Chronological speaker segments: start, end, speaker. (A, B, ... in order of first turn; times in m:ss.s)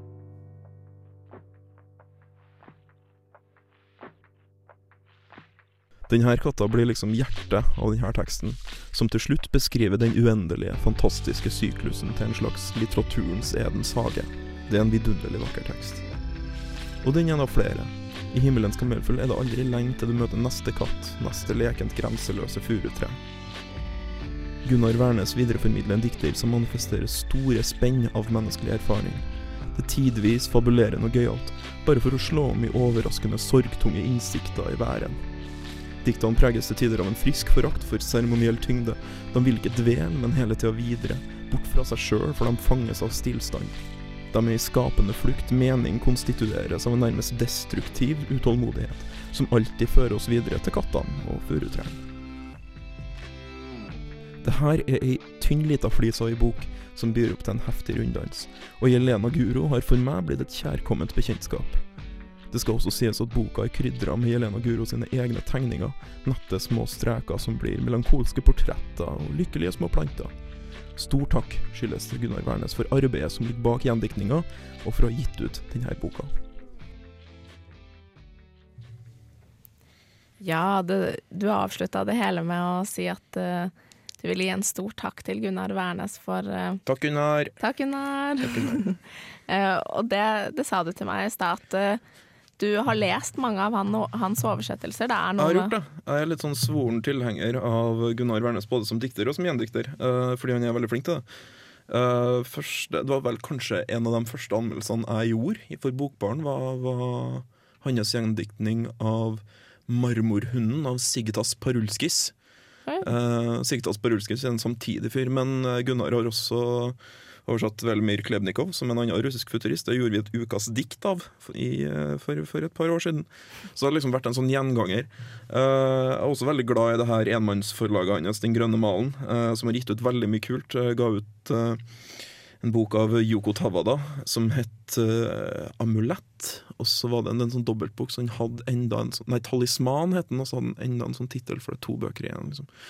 0:06.1-0:16.0 A
0:17.0-0:23.2 A
0:24.6-0:35.2 A
0:36.0-0:43.8 A
0:44.3-0:52.0 A
0:54.4-1:01.8 A
1:02.5-1:10.3 A
1:11.0-1:16.3 A
1:20.4-1:26.8 B
1:26.9-1:27.6 A
1:27.6-1:32.0 B
1:28.4-1:28.8 A
1:32.6-1:35.7 B
1:35.4-1:41.2 A
1:41.9-1:52.3 A
1:53.0-2:11.8 A
2:12.6-2:22.7 A